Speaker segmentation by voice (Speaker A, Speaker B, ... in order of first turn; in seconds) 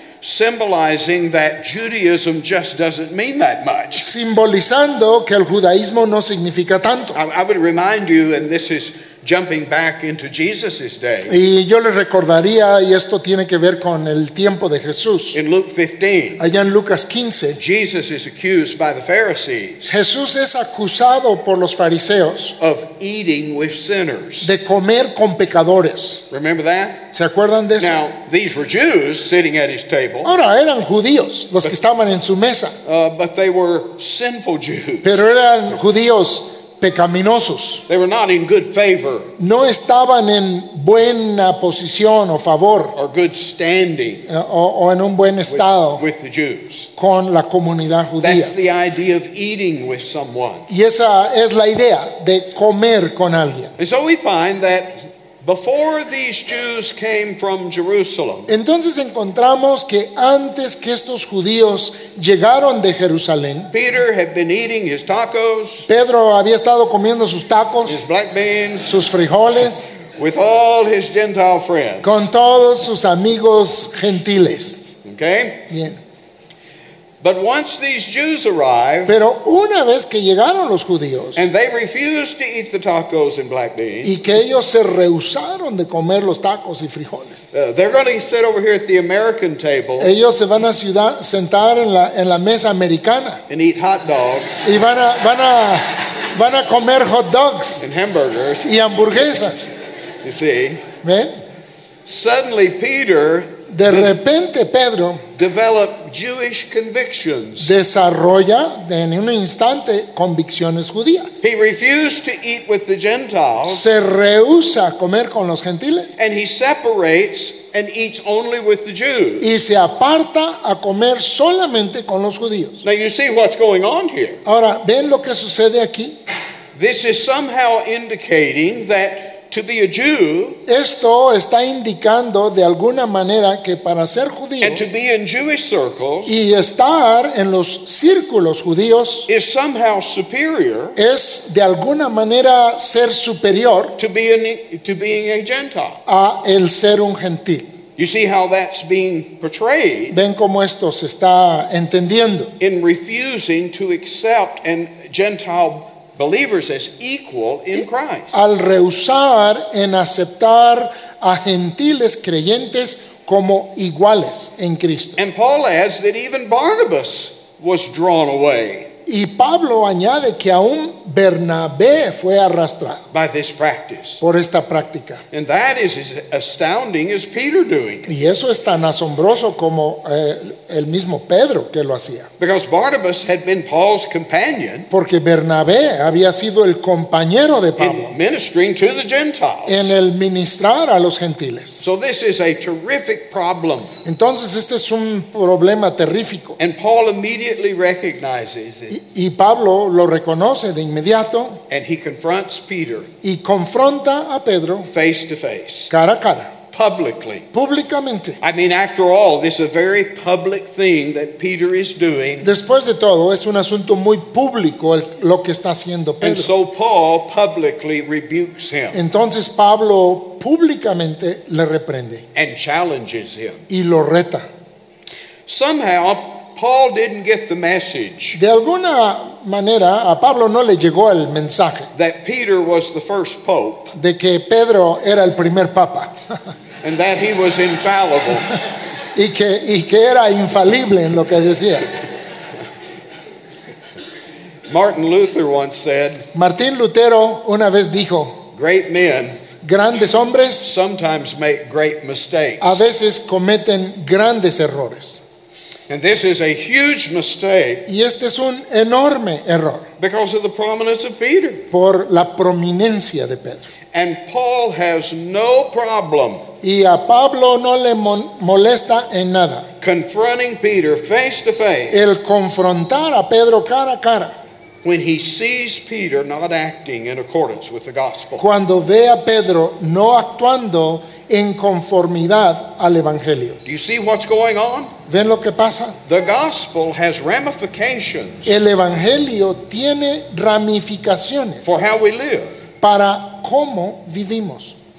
Speaker A: 0.2-4.1, 7.1-11.3, 15.3-16.4, 17.6-20.0, 22.6-24.5, 26.3-27.0, 27.8-30.3, 32.8-35.2, 37.9-39.3, 42.9-44.3, 45.5-46.9, 48.2-50.7, 53.8-58.5, 63.7-65.9, 67.8-69.0, 70.2-72.3, 75.0-75.7, 77.2-79.1, 81.3-84.2, 87.5-90.1, 93.5-94.7, 97.8-98.9, 100.2-100.8, 102.0-104.1, 105.4-107.7, 111.4-113.8, 116.2-119.5, 122.8-124.4, 126.7-130.6, 134.6-136.4, 139.3-141.0, 144.0-146.0, 148.0-150.2, 152.6-158.3, 165.2-168.9, 173.1-174.2, 175.3-178.1, 182.4-184.9, 187.8-189.9, 191.8-193.9, 196.6-198.9, 201.7-203.1, 204.9-205.9, 206.7-207.4, 208.4-212.5, 216.2-219.0, 222.3-223.6, 225.5-228.4, 231.9-233.9, 236.8-238.5, 244.7-246.2, 248.5-249.3, 250.6-252.8, 255.9-257.9, 260.0-261.6, 263.9-266.4, 269.8-272.1, 274.8-278.4, 283.6-284.9, 286.1-288.6, 291.6-292.6
Speaker B: 4.0-7.2, 11.3-15.4, 16.4-17.6, 19.9-22.6, 24.4-26.2, 27.1-28.0, 30.2-32.8, 35.0-37.8, 39.4-42.9, 44.3-46.0, 47.0-48.5, 50.7-53.7, 58.5-63.7, 65.9-68.0, 68.8-70.0, 72.0-74.8, 75.7-76.0, 79.1-81.5, 84.0-87.4, 90.0-93.4, 94.6-97.9, 98.6-99.7, 101.0-101.3, 103.7-105.2, 107.6-111.4, 113.7-116.1, 119.4-122.8, 124.4-126.2, 130.7-134.8, 136.3-139.3, 140.9-144.0, 146.1-147.7, 150.1-152.5, 158.3-165.2, 169.1-173.0, 174.2-175.2, 178.1-182.3, 184.9-188.1, 189.7-191.8, 194.0-196.6, 198.9-201.6, 203.2-204.9, 205.9-206.5, 207.5-208.4, 212.4-216.5, 218.9-222.2, 223.7-224.4, 228.3-231.9, 233.9-236.2, 239.1-241.9, 246.3-248.4, 249.6-250.7, 252.6-255.2, 257.9-259.9, 261.7-263.7, 266.6-269.7, 271.9-274.3, 278.4-283.6, 285.1-286.0, 288.4-291.7, 292.8-294.7